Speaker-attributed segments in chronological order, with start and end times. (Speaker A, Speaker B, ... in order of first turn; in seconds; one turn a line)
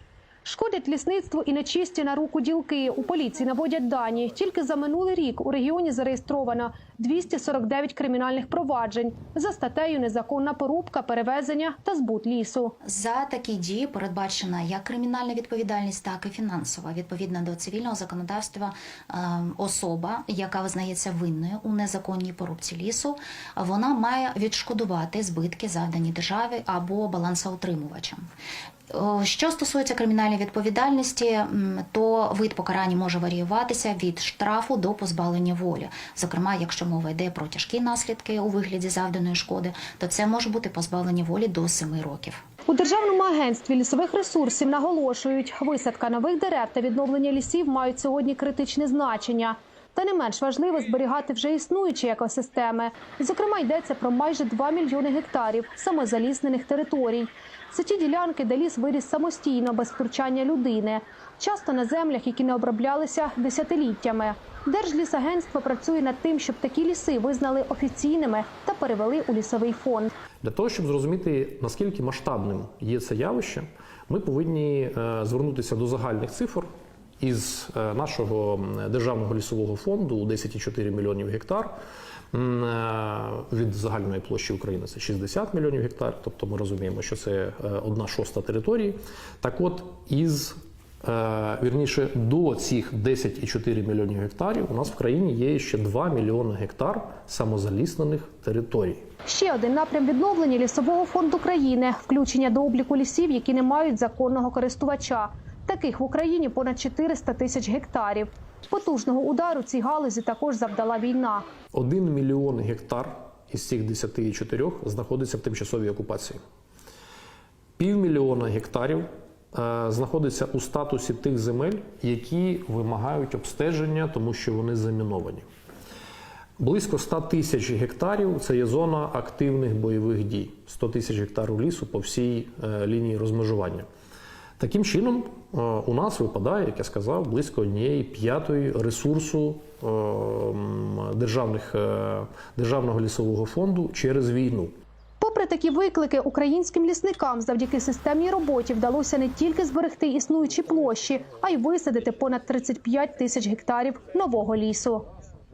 Speaker A: 0.4-12.8
Speaker B: 12.8-28.2
Speaker B: 28.9-42.4
Speaker A: 42.7-70.1
Speaker C: 70.4-76.7
Speaker C: 77.2-81.7
Speaker C: 82.3-99.0
Speaker A: 99.3-111.5
Speaker C: 111.7-116.4
Speaker C: 117.8-125.5
Speaker C: 126.6-133.9
Speaker C: 134.6-144.7
Speaker A: 145.2-155.1